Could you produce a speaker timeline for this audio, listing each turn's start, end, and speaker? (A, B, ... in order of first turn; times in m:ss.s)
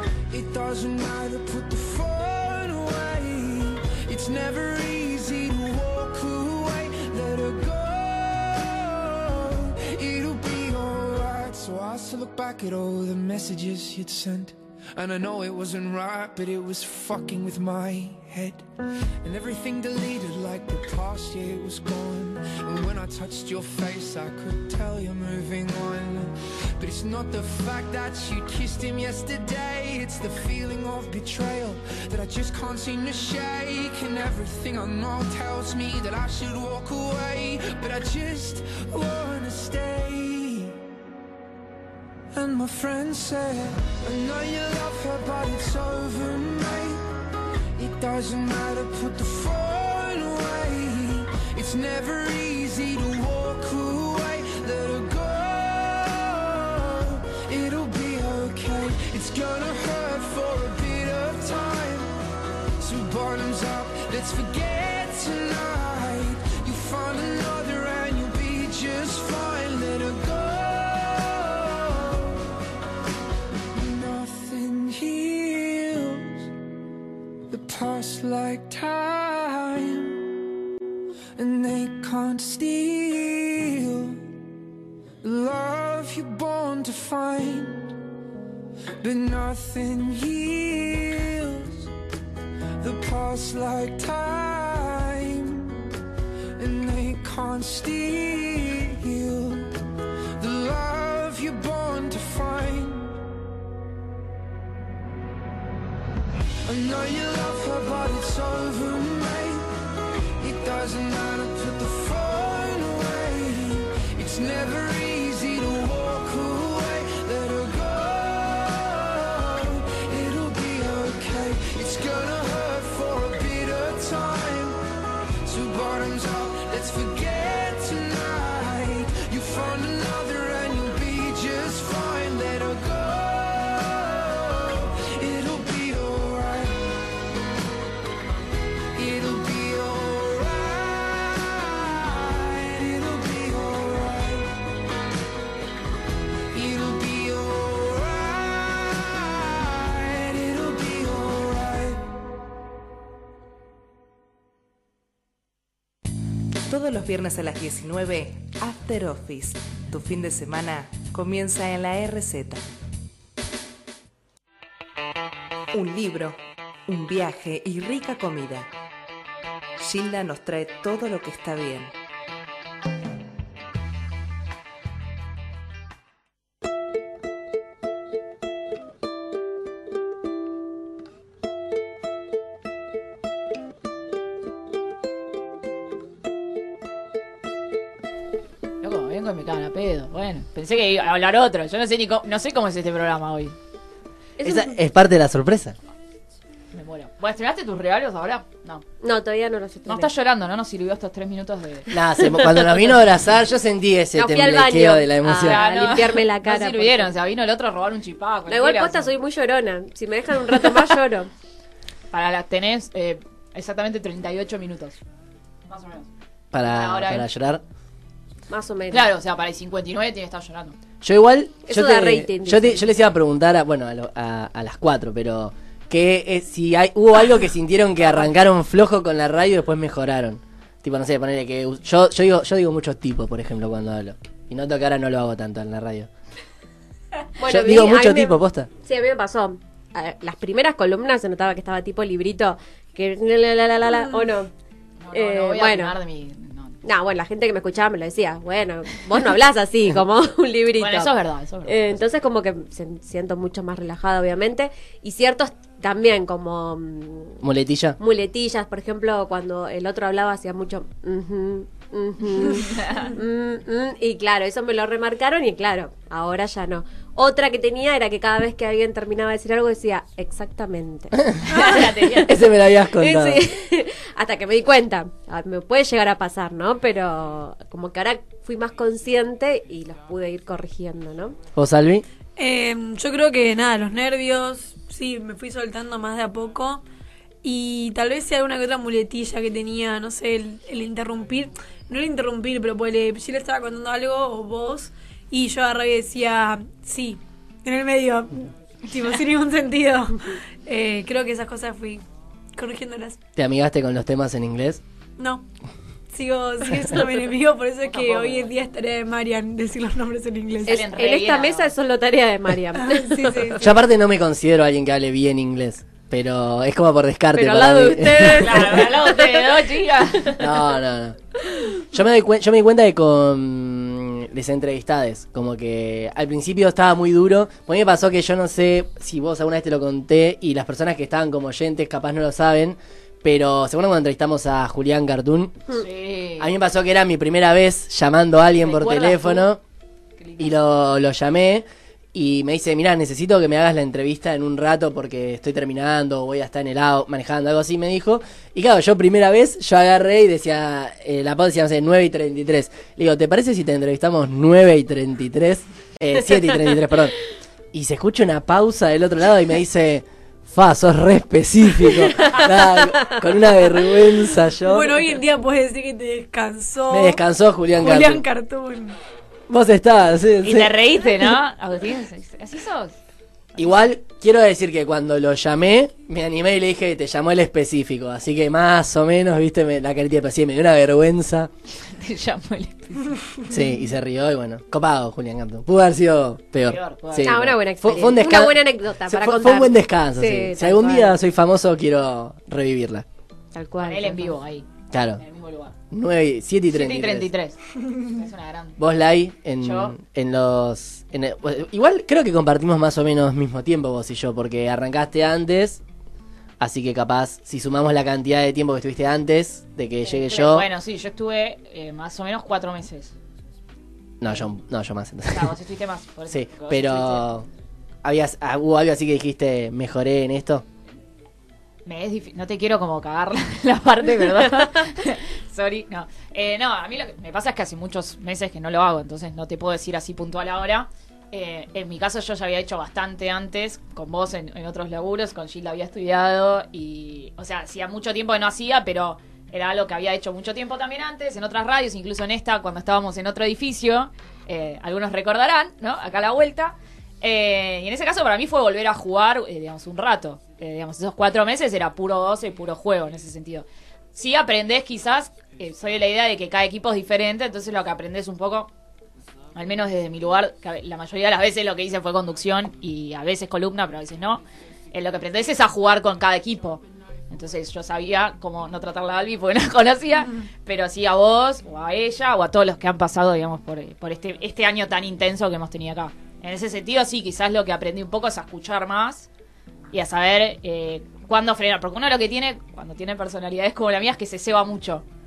0:00.3-0:18.7 A
0:19.2-0:40.8 A
0:42.3-0:47.0 A
0:47.8-1:02.1 A
1:02.8-1:12.4 A
1:13.7-1:16.5 A
1:17.5-1:20.3 A
1:21.4-1:24.2 A
1:25.2-1:27.9 A
1:29.0-1:31.9 A
1:32.8-1:35.8 A
1:36.6-1:39.7 A
1:40.4-1:43.2 A
1:46.6-1:49.7 A
1:50.4-2:04.8 A
2:05.4-2:16.8 A
2:19.0-2:24.5 A
2:26.5-2:32.0 A
2:36.6-2:42.6 B
2:45.7-2:48.7 B
2:49.8-2:52.0 B
3:08.8-3:13.6 C
3:14.4-3:14.7 D
3:14.4-3:15.8 E
3:16.7-3:18.8 C
3:19.0-3:20.1 D
3:19.9-3:22.0 C
3:21.9-3:25.7 E
3:24.1-3:27.1 D
3:25.4-3:29.1 C
3:28.5-3:31.3 D
3:32.1-3:35.0 C
3:35.7-3:36.1 C
3:36.5-3:37.6 E
3:36.6-3:37.3 C
3:38.5-3:39.1 D
3:38.9-3:40.8 C
3:41.0-3:56.1 E
3:41.7-3:42.8 D
3:57.4-4:04.5 D
3:57.4-3:58.7 E
4:03.9-4:04.2 F
4:05.0-4:06.8 C
4:05.1-4:06.0 D
4:06.8-4:11.1 D
4:10.8-4:12.0 C
4:11.6-4:17.4 D
4:17.4-4:18.0 E
4:18.0-4:32.3 D
4:22.8-4:23.1 C
4:31.2-4:33.4 E
4:31.5-4:32.4 C
4:33.0-4:41.4 D
4:41.6-4:42.0 E
4:42.4-4:46.8 F
4:47.4-5:02.0 F
5:02.6-5:03.2 F
5:03.4-5:04.8 E
5:05.2-5:05.4 F
5:06.1-5:10.8 F
5:07.8-5:08.5 C
5:10.6-5:13.7 D
5:10.6-5:11.7 C
5:12.8-5:13.6 F
5:13.6-5:18.9 E
5:17.3-5:19.4 D
5:18.2-5:20.5 C
5:20.4-5:21.2 E
5:21.8-5:35.6 E
5:35.7-5:36.5 C
5:36.4-5:39.6 E
5:38.6-5:39.5 C
5:40.2-5:40.6 C
5:40.4-5:57.2 E
5:57.7-6:05.2 E
6:04.6-6:07.2 F
6:06.9-6:08.2 E
6:07.8-6:09.0 F
6:09.5-6:10.8 E
6:10.4-6:12.9 C
6:13.6-6:21.5 E
6:21.8-6:23.2 C
6:23.5-6:33.0 E
6:26.6-6:27.4 C
6:27.2-6:31.2 D
6:33.5-6:34.4 D
6:33.8-6:35.8 C
6:34.9-6:35.2 E
6:35.9-6:37.3 E
6:36.7-6:38.8 C
6:38.8-6:45.8 E
6:39.6-6:39.9 C
6:46.6-6:50.7 E
6:50.0-6:53.1 C
6:54.2-6:55.5 E
6:55.3-6:57.3 C
6:56.3-6:57.5 E
6:58.0-7:00.6 E
7:01.8-7:38.7 C
7:39.6-7:59.3 C
7:59.9-8:05.0 C